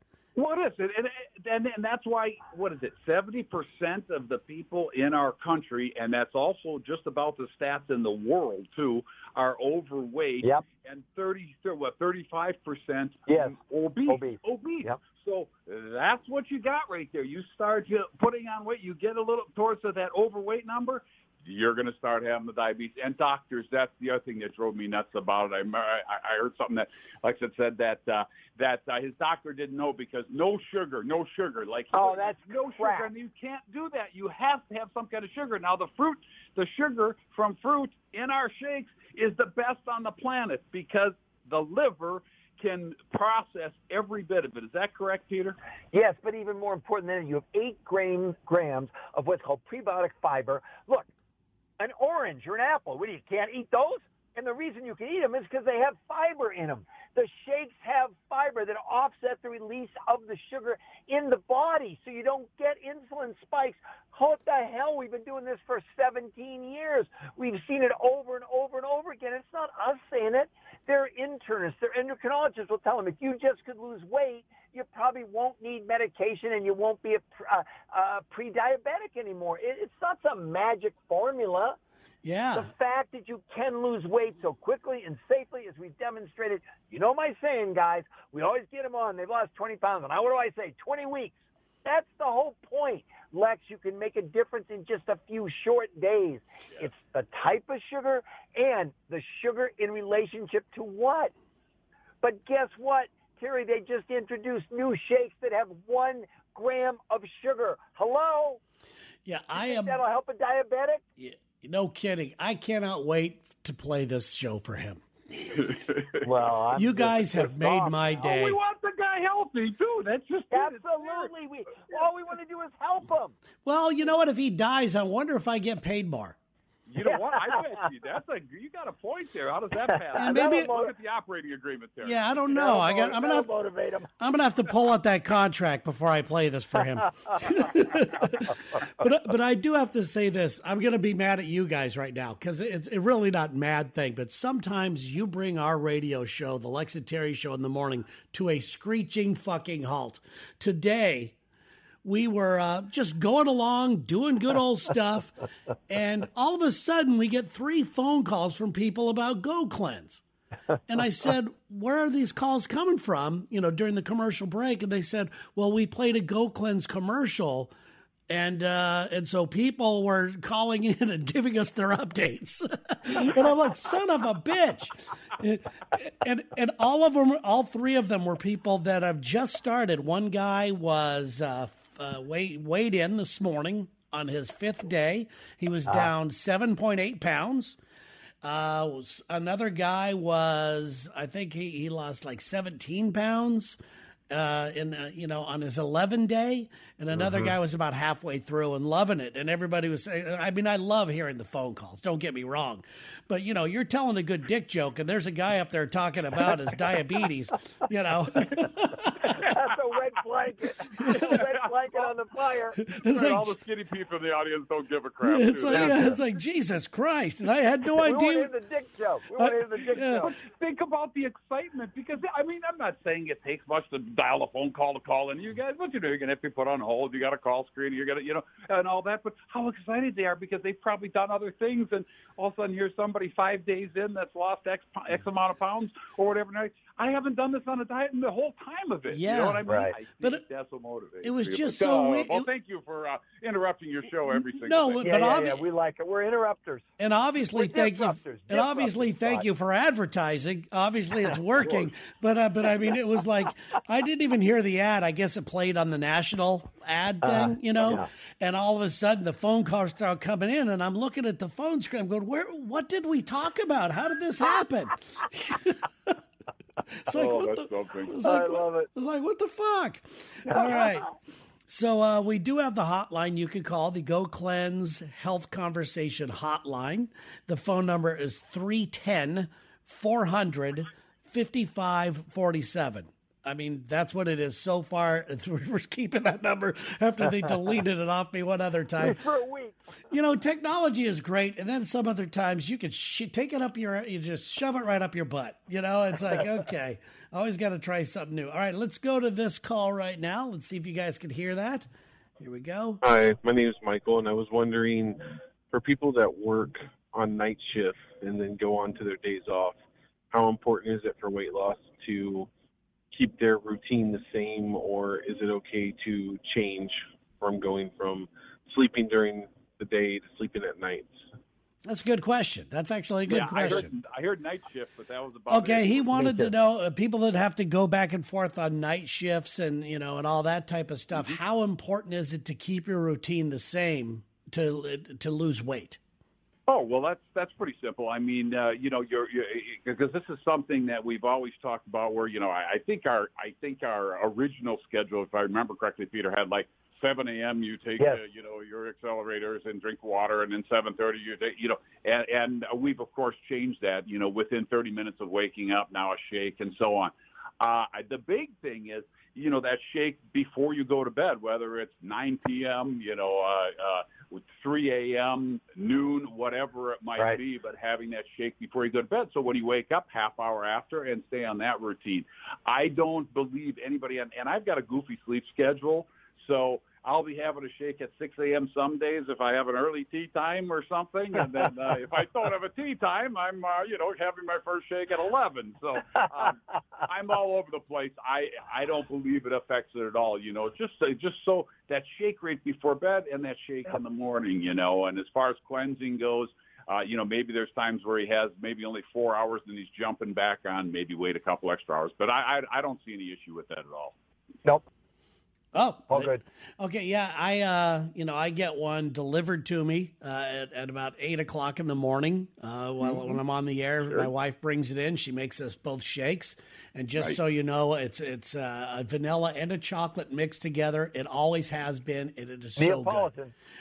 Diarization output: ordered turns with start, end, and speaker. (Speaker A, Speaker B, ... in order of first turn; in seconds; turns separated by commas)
Speaker A: 0.4-45.6, Speaker B: 13.3-13.6, Speaker B: 14.1-15.0, Speaker B: 31.9-33.1, Speaker B: 45.9-51.1, Speaker B: 51.8-81.8, Speaker C: 82.2-82.7, Speaker B: 82.5-101.3, Speaker B: 102.2-108.6, Speaker C: 109.3-110.0, Speaker B: 109.6-111.0, Speaker C: 111.2-115.0, Speaker A: 115.4-116.2, Speaker B: 116.2-118.3, Speaker C: 116.7-118.6, Speaker A: 118.2-121.3, Speaker B: 120.5-123.4, Speaker C: 123.7-126.4, Speaker A: 126.9-132.2, Speaker B: 127.0-127.6, Speaker B: 130.2-130.9, Speaker C: 130.2-130.7, Speaker C: 132.0-133.5, Speaker B: 132.5-134.1, Speaker C: 134.2-151.3, Speaker C: 152.0-160.2, Speaker C: 160.9-167.7, Speaker C: 168.3-187.8, Speaker C: 188.4-193.8, Speaker C: 194.3-209.3, Speaker B: 197.1-197.5, Speaker B: 209.4-212.8, Speaker C: 211.0-211.4, Speaker A: 211.1-212.1, Speaker A: 212.8-216.0, Speaker C: 212.9-213.5, Speaker C: 215.2-218.5, Speaker B: 215.7-216.2, Speaker B: 218.0-220.3, Speaker C: 219.4-220.3, Speaker A: 220.2-245.3, Speaker C: 239.1-240.4, Speaker B: 239.7-239.9, Speaker C: 241.2-242.5, Speaker C: 244.3-245.6, Speaker B: 245.0-246.9, Speaker C: 247.0-266.1, Speaker B: 247.5-249.5, Speaker B: 257.2-258.1, Speaker C: 267.0-271.1, Speaker A: 267.1-268.1, Speaker B: 268.2-268.9, Speaker B: 270.5-270.8, Speaker C: 271.7-289.2, Speaker B: 289.0-289.8, Speaker C: 290.1-301.9, Speaker C: 302.4-303.0, Speaker D: 303.0-305.2, Speaker D: 305.7-309.8, Speaker D: 310.3-312.5, Speaker D: 313.1-321.2, Speaker C: 321.9-323.9, Speaker A: 323.3-326.1, Speaker C: 325.5-336.0, Speaker B: 326.1-326.6, Speaker A: 336.7-404.1, Speaker C: 405.7-423.3, Speaker B: 406.1-406.4, Speaker A: 414.0-414.3, Speaker B: 422.8-423.5